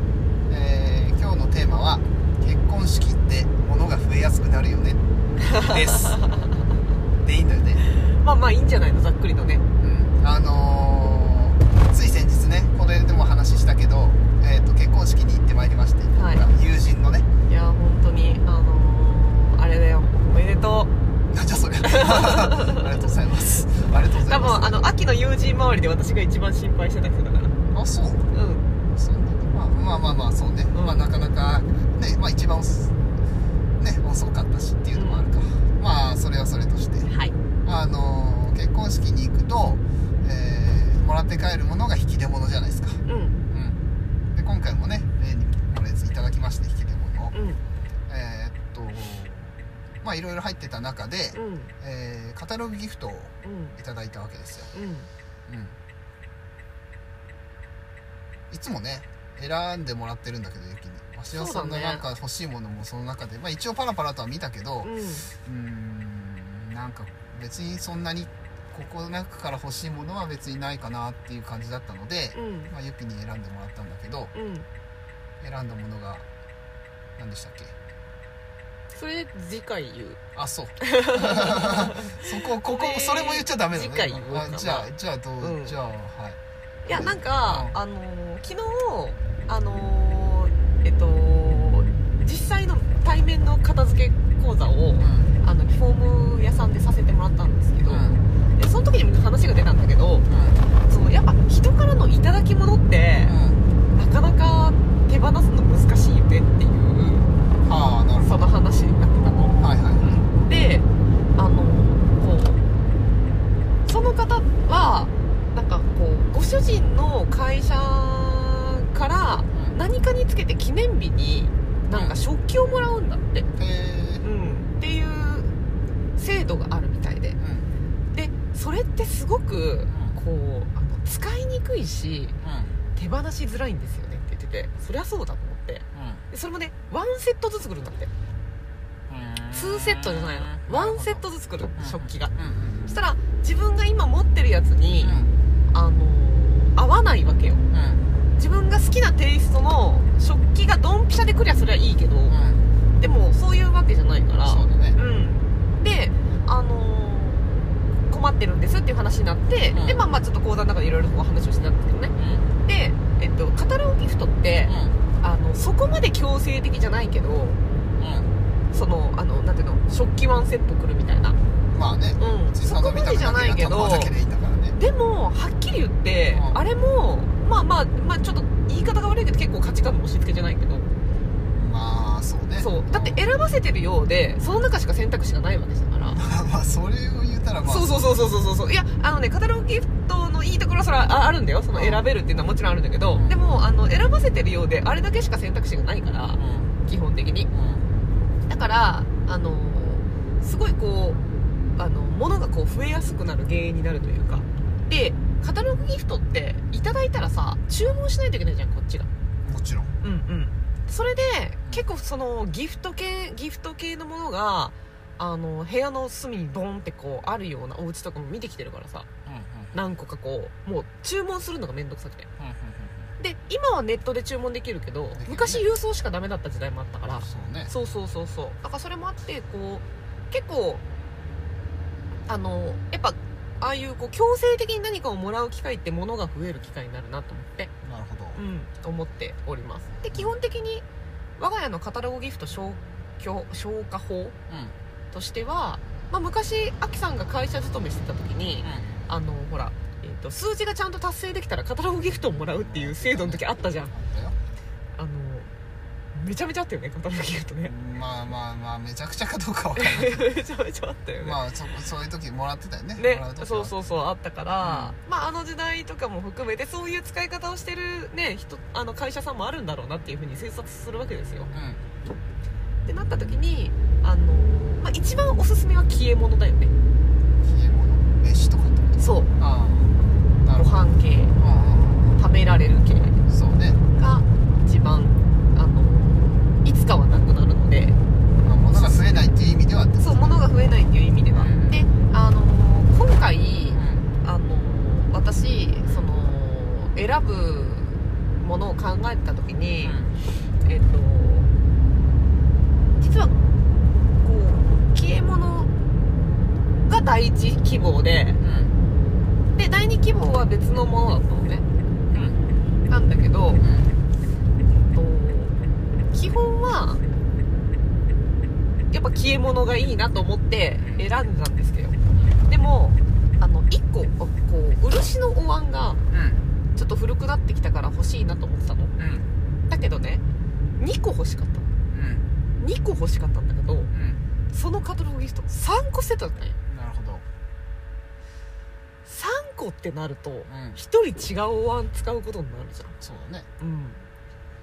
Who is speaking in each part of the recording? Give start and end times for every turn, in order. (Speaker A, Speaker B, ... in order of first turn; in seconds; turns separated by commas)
Speaker A: 0.5-5.0, Speaker B: 5.4-6.5, Speaker A: 5.6-6.2, Speaker A: 7.2-7.8, Speaker B: 7.8-9.7, Speaker A: 9.8-17.3, Speaker B: 16.1-16.4, Speaker B: 17.5-20.9, Speaker A: 21.3-24.9, Speaker B: 21.9-22.8, Speaker B: 24.2-27.6, Speaker A: 27.7-28.2, Speaker B: 28.3-28.6, Speaker A: 28.9-32.9, Speaker B: 30.7-31.1, Speaker A: 33.8-37.1, Speaker B: 34.9-35.3, Speaker B: 37.1-37.3, Speaker A: 37.6-43.8, Speaker B: 43.0-43.4, Speaker A: 44.3-47.3, Speaker B: 47.3-47.6, Speaker A: 48.1-54.7, Speaker B: 51.3-51.7, Speaker B: 53.4-53.8, Speaker B: 54.7-55.1, Speaker A: 55.5-55.8, Speaker A: 58.5-74.3, Speaker B: 61.3-62.1, Speaker B: 64.8-65.3, Speaker B: 72.3-72.7, Speaker B: 74.3-74.7, Speaker A: 75.4-76.2, Speaker A: 77.2-77.7, Speaker B: 78.9-80.2, Speaker A: 80.3-87.8, Speaker B: 80.8-85.8, Speaker B: 86.8-100.3, Speaker A: 95.0-95.3, Speaker A: 97.8-98.2, Speaker A: 100.3-100.6, Speaker B: 100.8-103.4, Speaker A: 103.2-103.6, Speaker B: 103.9-107.3, Speaker A: 107.6-108.5, Speaker B: 108.2-112.6, Speaker A: 109.6-110.2, Speaker B: 113.8-123.5, Speaker A: 119.5-119.8, Speaker A: 121.9-122.2, Speaker A: 123.6-124.2, Speaker B: 124.2-125.5, Speaker B: 126.2-127.4, Speaker A: 127.4-127.7, Speaker B: 128.1-132.3, Speaker A: 129.9-130.2, Speaker A: 132.4-132.7, Speaker B: 132.9-138.1, Speaker A: 135.9-136.2, Speaker A: 139.1-141.2, Speaker B: 139.5-142.3, Speaker A: 141.8-142.9, Speaker B: 142.9-145.2, Speaker A: 145.0-145.3, Speaker B: 145.7-147.6, Speaker A: 147.7-148.0, Speaker B: 148.4-152.4, Speaker A: 152.3-152.6, Speaker B: 153.0-162.1, Speaker A: 154.4-155.0, Speaker A: 159.7-160.1, Speaker A: 162.2-162.5, Speaker B: 162.6-167.6, Speaker A: 164.7-164.9, Speaker A: 168.0-168.3, Speaker B: 168.7-171.4, Speaker A: 171.7-174.8, Speaker B: 172.2-174.1, Speaker B: 174.8-180.9, Speaker A: 176.3-176.6, Speaker A: 181.5-183.2, Speaker B: 182.6-186.2, Speaker A: 186.0-188.3, Speaker B: 187.6-197.5, Speaker A: 191.7-192.0, Speaker A: 193.1-193.4, Speaker A: 196.3-196.7, Speaker A: 197.5-198.0, Speaker B: 198.5-201.2, Speaker B: 201.8-209.1, Speaker A: 209.4-209.9, Speaker B: 210.0-219.1, Speaker A: 219.2-219.8, Speaker B: 219.7-222.3, Speaker A: 222.4-223.1, Speaker B: 223.2-230.8, Speaker A: 225.1-225.6, Speaker A: 227.2-227.7, Speaker B: 232.3-237.7, Speaker A: 237.8-238.4, Speaker B: 238.3-240.8, Speaker B: 241.4-244.3, Speaker A: 244.5-244.7, Speaker B: 245.1-253.9, Speaker A: 248.6-249.0, Speaker A: 252.1-254.4, Speaker B: 254.9-255.5, Speaker B: 256.1-257.7, Speaker A: 257.6-260.3, Speaker B: 259.8-261.4, Speaker A: 261.2-263.7, Speaker B: 262.9-271.5, Speaker A: 264.6-264.9, Speaker A: 271.5-271.8, Speaker B: 272.9-276.7, Speaker A: 277.4-280.7, Speaker B: 279.0-279.3, Speaker B: 280.5-281.4, Speaker A: 281.4-282.2, Speaker B: 282.2-283.2, Speaker A: 283.3-283.8, Speaker B: 283.9-288.0, Speaker A: 288.4-290.4, Speaker B: 288.7-289.3, Speaker B: 290.0-300.0, Speaker A: 291.3-291.8, Speaker A: 293.7-294.1, Speaker A: 299.8-300.1, Speaker B: 300.6-301.5, Speaker B: 303.0-303.3, Speaker B: 304.2-305.7, Speaker B: 306.9-308.4, Speaker A: 308.4-308.7, Speaker B: 309.5-311.6, Speaker A: 312.1-312.4, Speaker B: 312.9-313.7, Speaker A: 313.6-313.9, Speaker B: 314.9-315.6, Speaker B: 316.1-317.0, Speaker B: 318.9-326.0, Speaker A: 320.8-321.1, Speaker A: 326.1-326.4, Speaker B: 326.8-328.9, Speaker A: 329.0-329.3, Speaker B: 329.7-330.2, Speaker B: 330.8-331.6, Speaker A: 331.9-332.3, Speaker B: 332.6-333.9, Speaker A: 333.9-334.2, Speaker B: 334.5-336.6, Speaker A: 336.7-337.2, Speaker B: 339.1-342.9, Speaker A: 340.5-340.8, Speaker A: 343.0-343.5, Speaker B: 343.6-344.0